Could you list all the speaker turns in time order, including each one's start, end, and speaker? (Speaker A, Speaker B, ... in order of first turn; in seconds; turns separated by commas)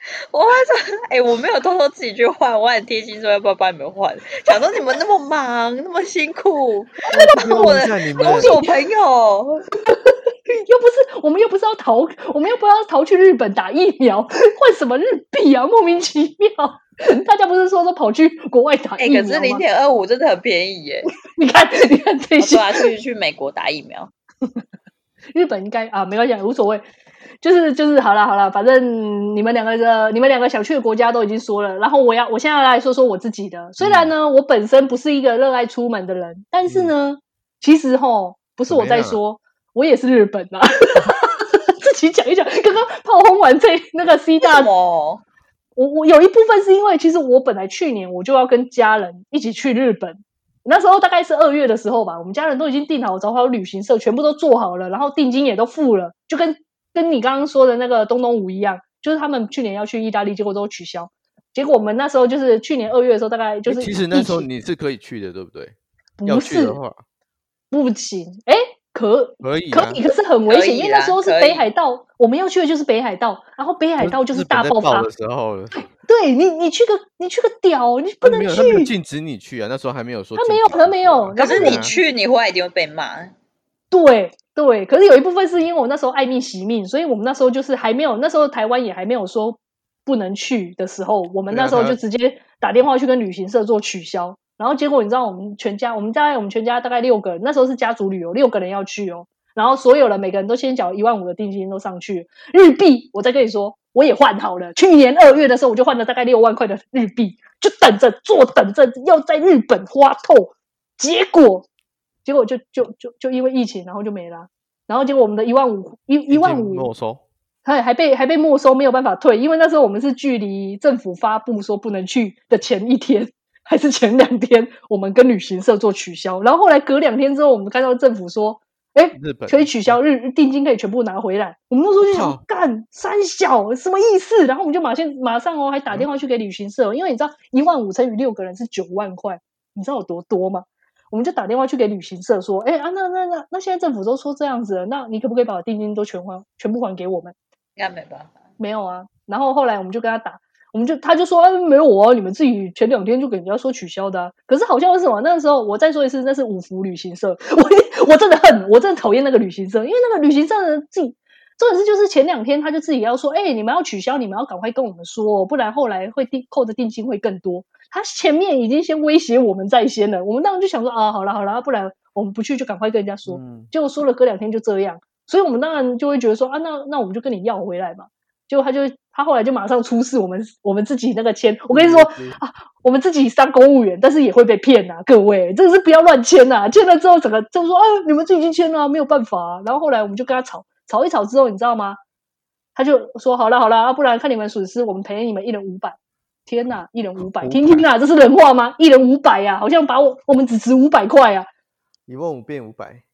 Speaker A: 0.3-9.6, Speaker B: 7.1-8.5, Speaker C: 8.2-8.7, Speaker C: 9.9-19.6, Speaker A: 19.0-21.1, Speaker C: 21.3-22.9, Speaker A: 22.4-24.1, Speaker C: 25.3-26.8, Speaker C: 27.4-44.7, Speaker B: 33.8-34.1, Speaker B: 36.7-36.9, Speaker B: 38.7-39.2, Speaker A: 44.4-45.2, Speaker C: 45.8-64.5, Speaker B: 63.6-67.0, Speaker C: 66.2-66.8, Speaker C: 67.7-75.1, Speaker B: 69.4-70.0, Speaker A: 70.5-71.7, Speaker B: 74.0-75.9, Speaker C: 75.9-78.9, Speaker B: 78.2-81.9, Speaker C: 80.4-82.0, Speaker A: 81.4-83.3, Speaker C: 83.9-111.7, Speaker B: 91.5-92.0, Speaker C: 112.2-116.9, Speaker B: 116.3-117.2, Speaker C: 117.6-147.3, Speaker B: 129.1-130.0, Speaker B: 132.1-132.4, Speaker A: 147.8-148.4, Speaker C: 148.6-192.0, Speaker B: 173.2-173.7, Speaker B: 181.7-182.4, Speaker C: 192.7-195.9, Speaker C: 196.5-201.5, Speaker B: 197.2-197.9, Speaker B: 202.1-203.0